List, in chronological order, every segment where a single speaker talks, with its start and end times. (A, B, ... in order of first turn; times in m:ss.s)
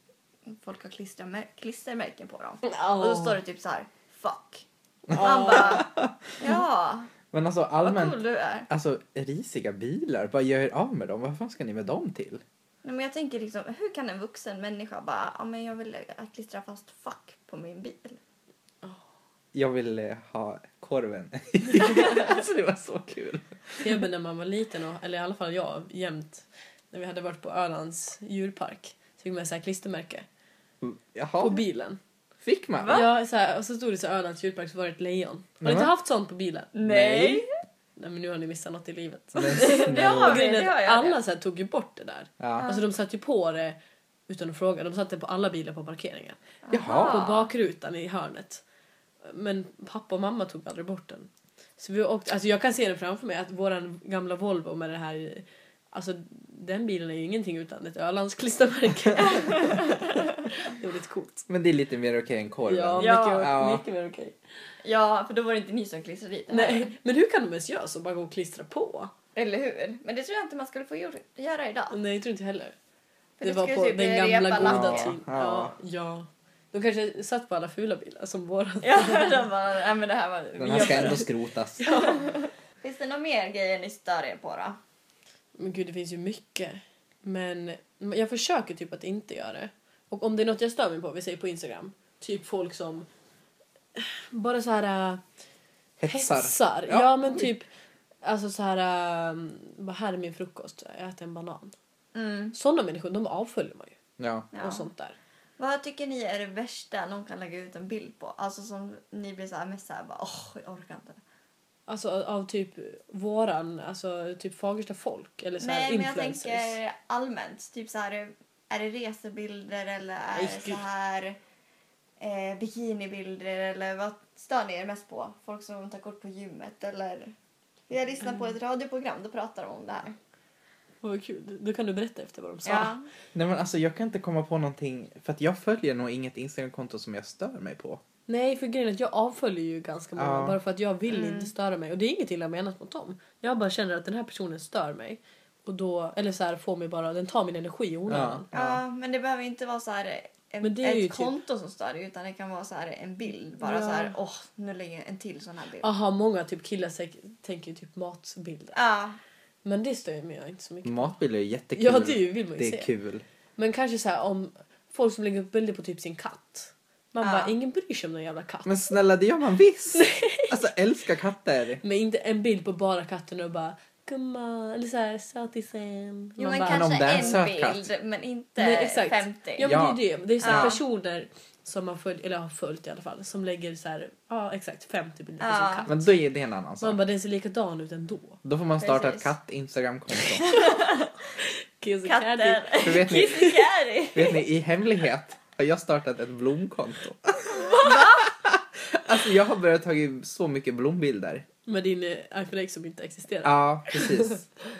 0:00.5-0:05.9 A
0:02.6-0:03.4 B
0:05.1-0:06.2 C
0:05.1-0:05.8 B
0:06.4-0:07.1 A
0:07.3-0:12.4 C
0:07.8-0:08.7 A
0:12.8-0:18.2 A
0:19.5-0:24.0 C
0:23.8-0:30.2 B
0:30.8-0:31.6 C
0:31.4-0:32.0 B
0:32.4-0:33.0 C
0:32.8-0:33.1 A
0:32.9-0:36.7 B
0:35.6-0:35.9 C
0:36.7-0:37.5 A
0:36.8-0:37.4 C
0:38.0-0:48.6 B
0:39.3-0:40.4 C
0:39.6-0:41.2 A
0:42.4-0:42.6 C
0:42.6-0:42.8 A
0:46.6-0:47.5 A
0:46.7-0:47.3 C
0:49.2-1:01.5 B
0:59.2-1:00.2 A
1:01.5-1:03.8 C
1:02.6-1:04.4 B
1:03.0-1:03.5 A
1:04.8-1:06.9 A
1:06.5-1:09.1 B
1:09.4-1:12.0 A
1:11.9-1:12.7 B
1:13.4-1:15.1 A
1:13.4-1:19.4 B
1:14.6-1:15.7 C
1:18.8-1:21.2 A
1:20.6-1:21.8 C
1:20.7-1:21.3 B
1:21.8-1:22.3 B
1:21.8-1:24.8 A
1:25.6-1:33.1 B
1:34.0-1:35.2 B
1:36.0-1:37.5 C
1:36.1-1:37.7 B
1:38.2-1:41.7 B
1:42.1-1:42.5 A
1:42.5-1:44.0 B
1:44.2-1:44.5 C
1:44.5-1:44.9 A
1:44.5-1:45.2 B
1:45.6-1:51.2 A
1:51.9-1:56.8 B
1:55.6-2:01.4 A
2:00.3-2:00.8 B
2:02.2-2:07.3 A
2:07.9-2:10.2 A
2:11.0-2:12.9 B
2:12.6-2:13.0 A
2:13.3-2:18.0 C
2:18.3-2:28.5 B
2:20.2-2:20.6 C
2:21.1-2:21.5 A
2:28.1-2:28.8 C
2:28.5-2:35.9 A
2:30.6-2:31.3 B
2:33.6-2:34.1 B
2:35.8-2:38.8 B
2:38.7-2:39.2 A
2:39.6-2:41.1 B
2:40.8-2:43.2 C
2:41.7-2:42.9 B
2:43.6-2:48.7 B
2:47.2-2:47.5 A
2:48.6-2:51.8 C
2:49.9-2:50.6 B
2:51.8-2:57.4 B
2:56.4-2:59.8 A
2:56.7-2:57.9 C
2:58.6-3:06.1 B
2:59.6-3:00.7 C
3:00.4-3:00.8 A
3:05.4-3:05.9 A
3:05.9-3:07.0 C
3:06.8-3:08.4 B
3:08.4-3:10.4 C
3:08.8-3:09.3 A
3:10.4-3:11.1 A
3:11.4-3:13.6 B
3:12.0-3:14.4 A
3:12.8-3:13.4 C
3:14.1-3:21.4 C
3:17.7-3:18.3 A
3:21.6-3:24.4 B
3:23.4-3:24.4 C